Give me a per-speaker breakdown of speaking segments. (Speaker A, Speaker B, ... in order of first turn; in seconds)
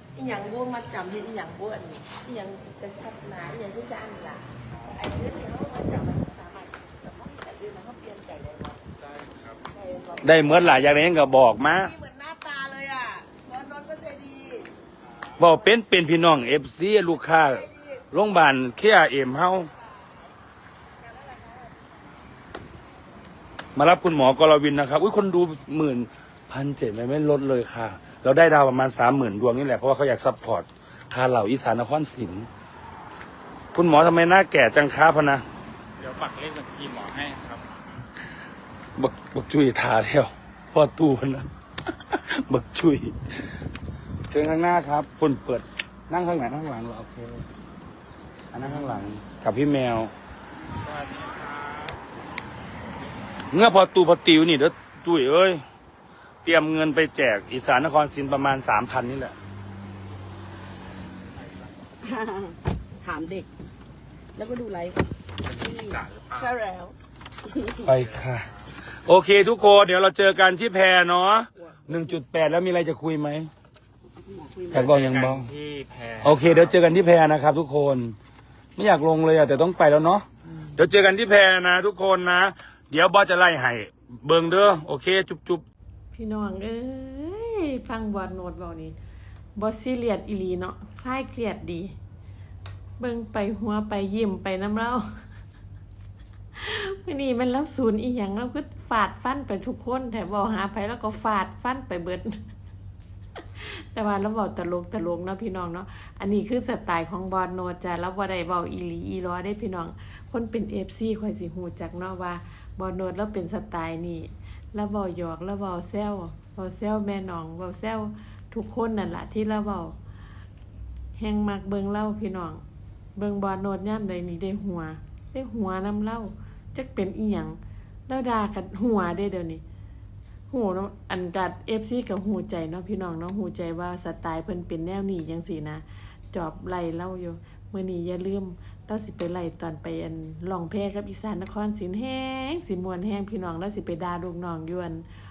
Speaker A: 0.1-8.8, 9.7-10.9, 11.7-14.7, 17.3-18.0, 21.0-21.9
Speaker B: 9.0-9.6, 36.0-37.6, 50.7-52.0, 65.4-66.5, 68.0-68.2, 74.7-76.8
Speaker C: 10.2-11.9, 15.4-19.7, 23.7-32.5, 33.7-35.4, 39.0-41.5, 42.1-43.3, 44.3-47.5, 48.5-50.1, 53.5-55.6, 56.4-59.4, 67.8-68.5, 69.0-73.5, 74.7-75.5, 76.2-78.2, 78.8-85.6
Speaker D: 62.0-63.5, 64.4-66.9, 67.5-67.8, 71.6-72.0, 74.2-74.9
Speaker E: 86.1-89.0, 89.6-92.0, 93.0-95.2, 96.6-102.4, 103.6-120.0, 121.2-122.6, 123.2-127.6, 128.1-129.6, 130.5-145.1